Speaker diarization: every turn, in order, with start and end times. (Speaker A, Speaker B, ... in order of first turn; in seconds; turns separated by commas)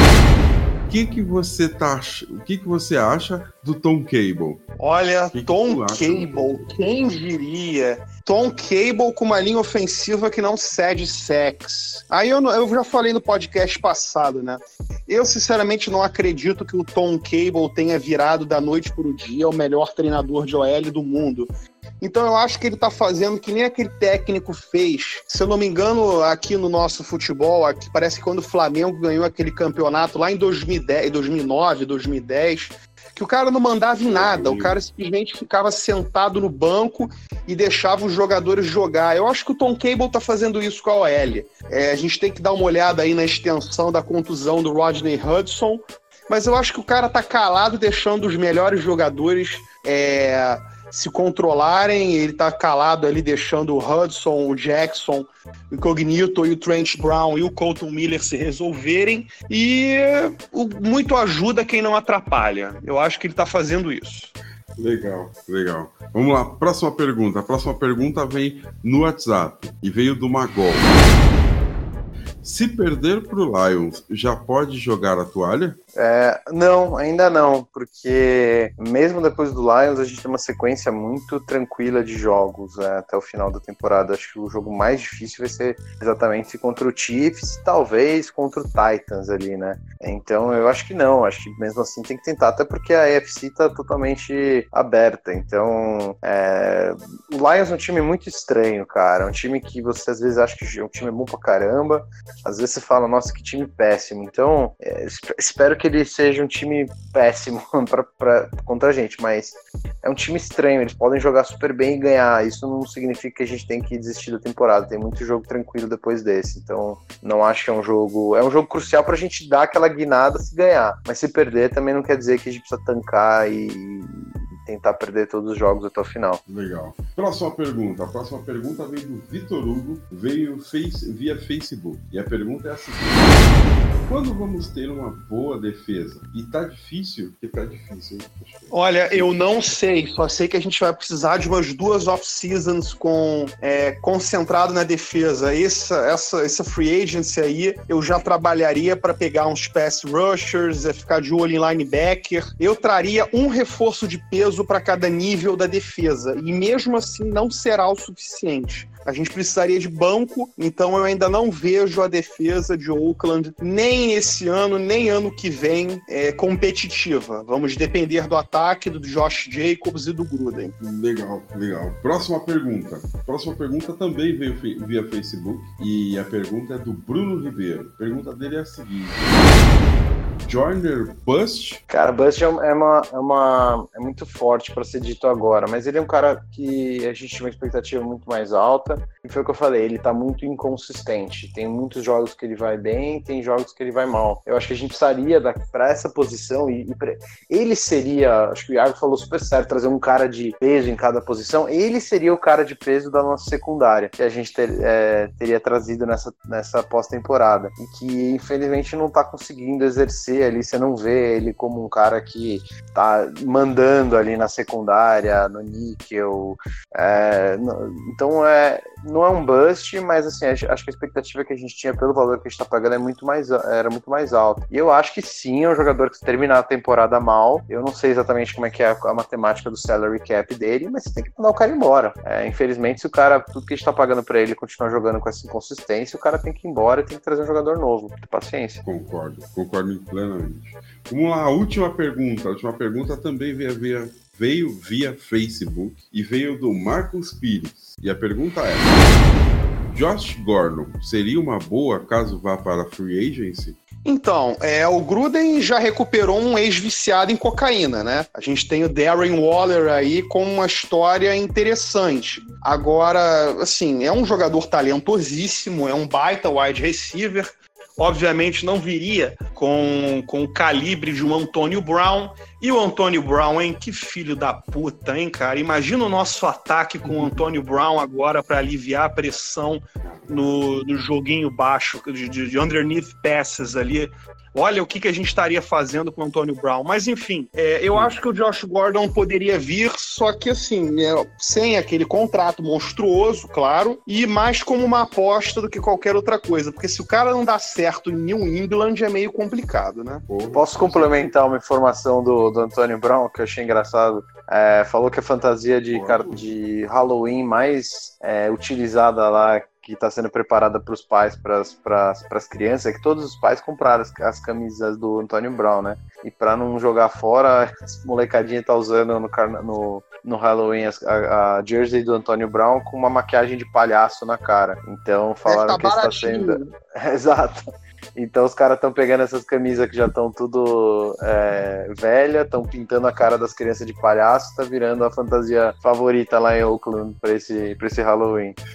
Speaker A: 0.9-4.7, Speaker B: 4.8-64.3, Speaker A: 5.3-6.7, Speaker A: 34.0-34.8, Speaker A: 64.8-70.9, Speaker A: 72.4-75.8, Speaker C: 76.0-126.4, Speaker A: 126.5-133.4, Speaker A: 134.1-139.3, Speaker B: 138.7-170.8, Speaker A: 170.8-179.4, Speaker A: 180.4-181.8, Speaker C: 181.9-238.8, Speaker A: 238.8-249.0, Speaker A: 249.9-253.8, Speaker B: 254.1-300.3, Speaker A: 280.0-280.6, Speaker A: 300.3-301.4, Speaker C: 300.5-338.6, Speaker A: 305.9-306.5, Speaker B: 325.5-326.7